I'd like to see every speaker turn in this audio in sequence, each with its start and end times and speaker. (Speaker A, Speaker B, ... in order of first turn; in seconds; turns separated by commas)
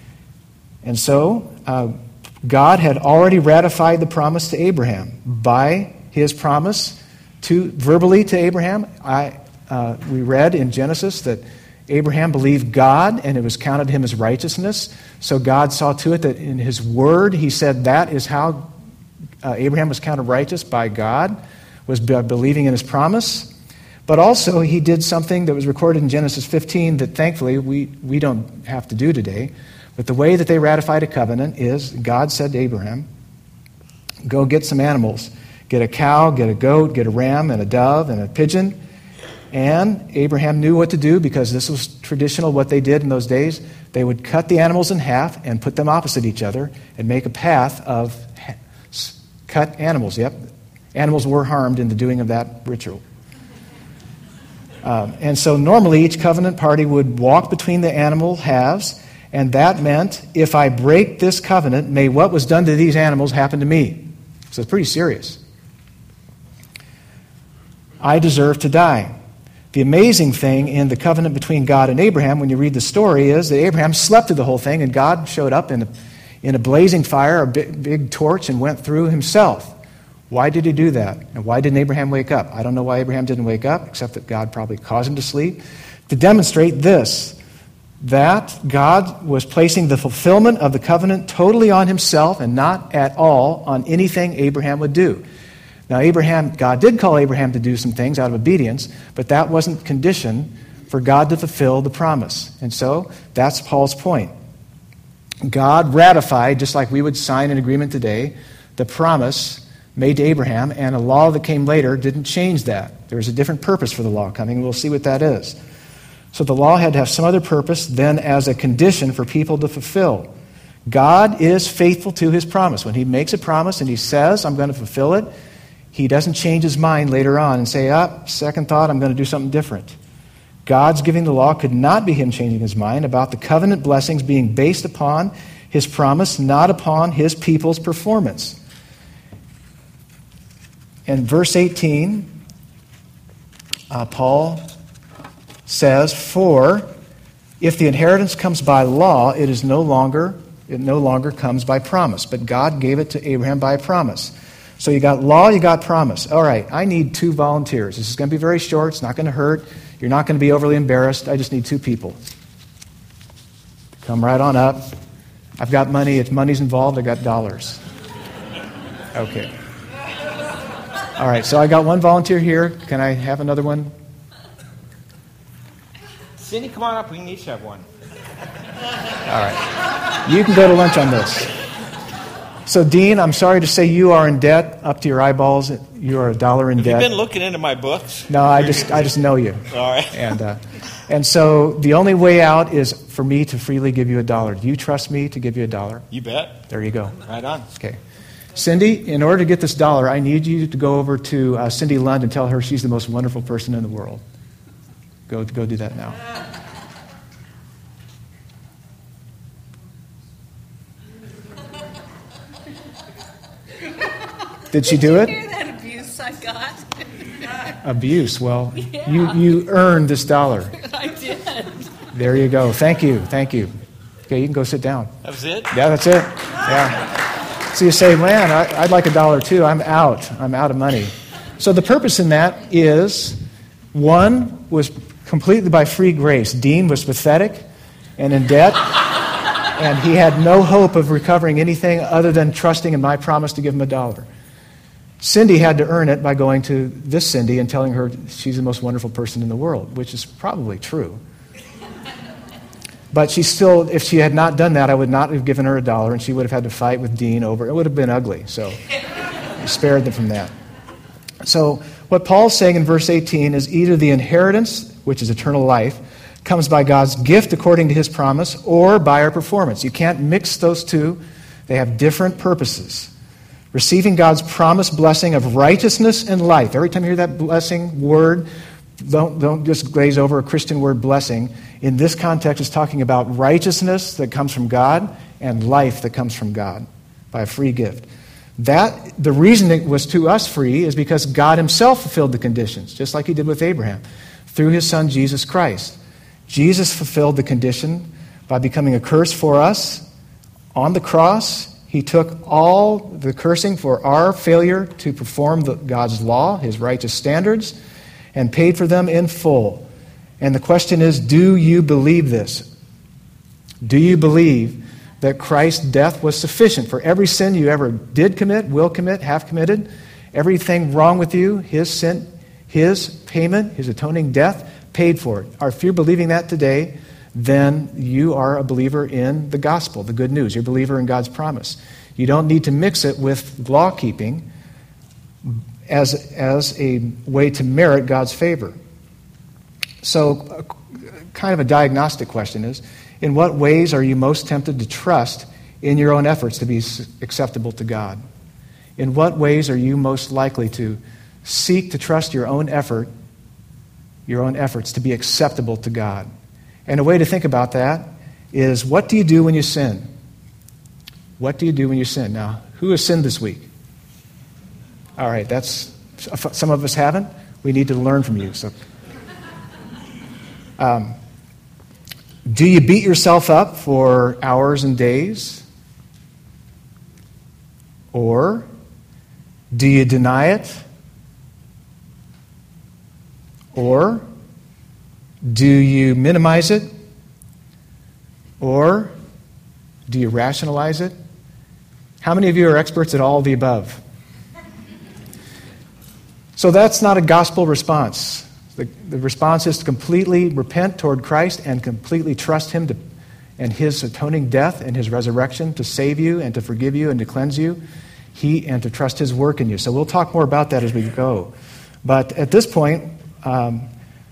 Speaker A: 0.8-18.7, Speaker A: 19.4-23.5, Speaker A: 24.1-33.1, Speaker A: 34.2-38.8, Speaker A: 39.5-50.3, Speaker A: 50.9-53.0, Speaker A: 54.8-65.4, Speaker A: 68.0-69.1, Speaker A: 69.7-75.9, Speaker A: 76.4-79.7, Speaker A: 80.3-87.3, Speaker A: 88.0-95.2, Speaker A: 95.9-104.3, Speaker A: 105.4-115.6, Speaker A: 116.3-120.3, Speaker A: 120.9-125.3, Speaker A: 125.9-130.0, Speaker A: 130.6-138.6, Speaker A: 141.1-142.3, Speaker A: 143.9-144.6, Speaker A: 145.7-146.9, Speaker A: 147.6-162.2, Speaker A: 164.0-164.9, Speaker A: 165.6-167.8, Speaker A: 169.1-169.5, Speaker A: 171.2-173.9, Speaker B: 176.4-177.8, Speaker A: 179.2-181.5, Speaker A: 182.7-187.1, Speaker B: 186.8-188.9, Speaker A: 188.3-196.1, Speaker B: 189.7-190.2, Speaker B: 196.1-196.6, Speaker A: 196.7-198.0, Speaker B: 197.2-197.7, Speaker A: 198.5-204.2, Speaker A: 205.3-206.2, Speaker A: 214.7-215.3, Speaker C: 214.9-217.3, Speaker A: 217.8-220.8, Speaker C: 219.0-219.3, Speaker C: 220.8-221.9, Speaker A: 222.1-223.7, Speaker A: 224.3-225.1, Speaker B: 225.2-225.7, Speaker A: 225.7-233.4, Speaker A: 233.9-237.6, Speaker A: 238.2-239.0, Speaker A: 239.7-244.3, Speaker A: 245.2-251.2, Speaker A: 253.1-258.8, Speaker A: 259.6-260.5, Speaker A: 261.4-273.1, Speaker A: 273.7-278.5, Speaker A: 279.0-288.1, Speaker A: 288.6-300.1, Speaker A: 300.7-307.7, Speaker A: 308.3-309.9, Speaker A: 310.4-312.6, Speaker A: 313.8-334.4, Speaker A: 335.4-338.8, Speaker A: 340.0-340.7, Speaker A: 341.3-348.2, Speaker A: 349.0-353.1, Speaker A: 354.3-356.3, Speaker A: 356.9-360.1, Speaker A: 361.4-363.7, Speaker A: 365.2-368.7, Speaker A: 370.8-371.1, Speaker A: 372.4-375.6, Speaker A: 378.1-378.7, Speaker A: 379.7-380.8, Speaker A: 383.7-384.2, Speaker A: 385.4-386.9, Speaker A: 388.6-389.1, Speaker A: 390.1-391.1, Speaker A: 392.2-394.0, Speaker A: 396.6-403.0, Speaker A: 403.6-407.8, Speaker A: 408.3-411.5, Speaker A: 412.0-413.9